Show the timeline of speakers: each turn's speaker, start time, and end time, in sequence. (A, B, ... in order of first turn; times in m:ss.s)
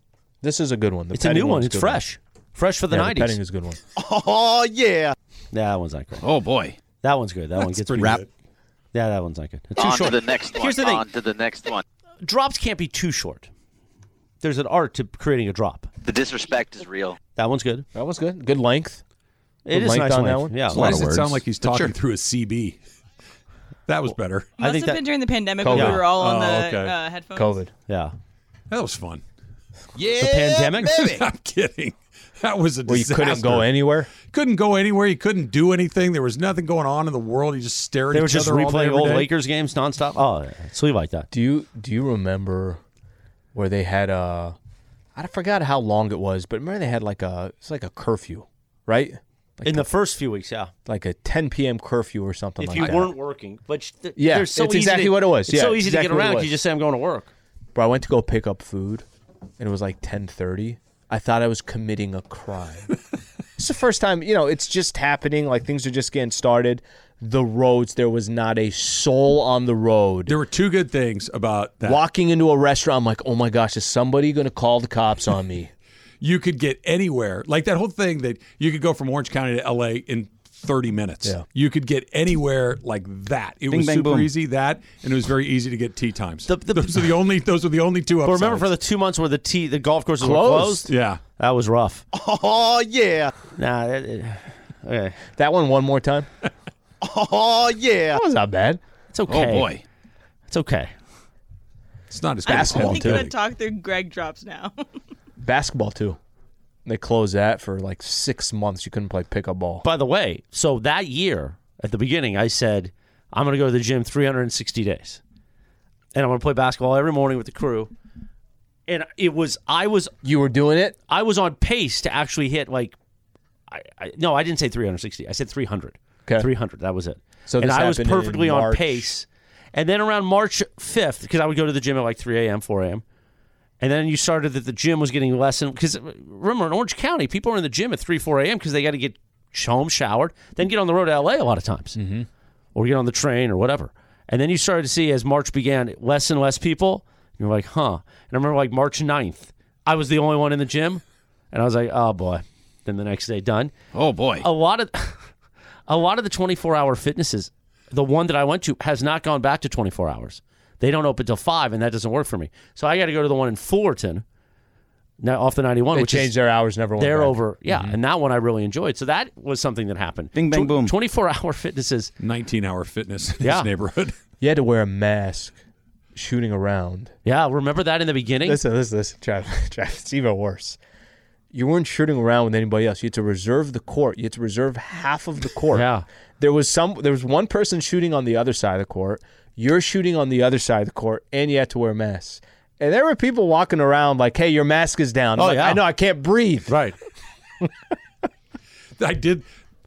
0:00.4-0:02.0 A
0:01.1-0:03.4 B
0:02.9-0:03.8 A
0:04.0-0:05.2 C
0:05.5-0:06.2 B
0:06.2-0:06.8 C
0:07.0-0:08.2 B
0:07.7-0:08.3 D
0:08.9-0:11.0 B
0:09.8-0:11.8 E
0:12.2-0:13.5 B
0:14.4-0:15.9 B
0:16.0-0:17.2 E
0:17.4-0:17.8 B
0:18.0-0:19.0 A
0:19.7-0:20.9 B
0:19.7-0:20.6 A
0:20.7-0:21.9 C
0:20.7-0:22.8 D
0:23.9-0:24.5 D
0:24.6-0:27.6 F
0:24.6-0:25.0 B
0:25.6-0:26.0 A
0:25.7-0:26.9 D
0:25.7-0:26.0 B
0:27.4-0:27.7 A
0:27.9-0:28.2 B
0:28.7-0:29.2 D
0:30.0-0:31.2 C
0:30.2-0:31.0 B
0:30.8-0:39.3 D
0:32.9-0:34.1 A
0:38.1-0:41.3 B
0:41.3-0:42.8 A
0:43.5-0:44.6 A
0:45.2-0:49.9 A
0:49.6-0:50.7 B
0:50.9-0:53.1 A
0:52.6-0:57.3 B
0:54.2-0:56.6 A
0:57.8-0:59.0 A
0:59.6-1:02.9 A
1:03.6-1:10.4 A
1:10.3-1:12.0 D
1:11.8-1:15.7 A
1:16.2-1:28.7 D
1:23.7-1:24.3 C
1:26.5-1:27.0 B
1:28.2-1:32.0 B
1:30.2-1:30.9 A
1:30.9-1:31.2 D
1:32.1-1:33.3 C
1:33.6-1:35.2 B
1:35.4-1:36.3 A
1:37.0-1:38.2 C
1:38.1-1:38.8 A
1:39.1-1:39.7 B
1:39.3-1:39.8 C
1:40.5-1:40.9 B
1:42.1-1:43.3 D
1:42.4-1:44.7 F
1:42.5-1:43.3 A
1:45.4-1:46.2 A
1:46.8-1:49.8 A
1:49.8-1:55.2 B
1:56.1-1:57.9 B
1:58.9-2:00.1 B
2:00.2-2:01.0 A
2:01.1-2:03.0 B
2:03.7-2:13.0 B
2:07.5-2:09.1 A
2:13.8-2:22.0 B
2:22.0-2:22.3 A
2:22.8-2:33.7 B
2:33.9-2:34.5 C
2:34.4-2:35.3 B
2:35.9-2:44.2 B
2:45.2-2:46.3 B
2:45.9-2:47.9 A
2:47.0-2:52.1 B
2:50.3-2:50.9 C
2:52.2-2:54.1 D
2:53.4-2:53.7 B
2:54.4-2:55.6 A
2:56.2-2:57.1 A
2:57.2-2:58.6 B
2:58.4-3:00.8 A
3:01.5-3:05.9 A
3:05.7-3:06.0 B
3:06.4-3:16.7 A
3:15.4-3:15.8 B
3:19.0-3:19.4 D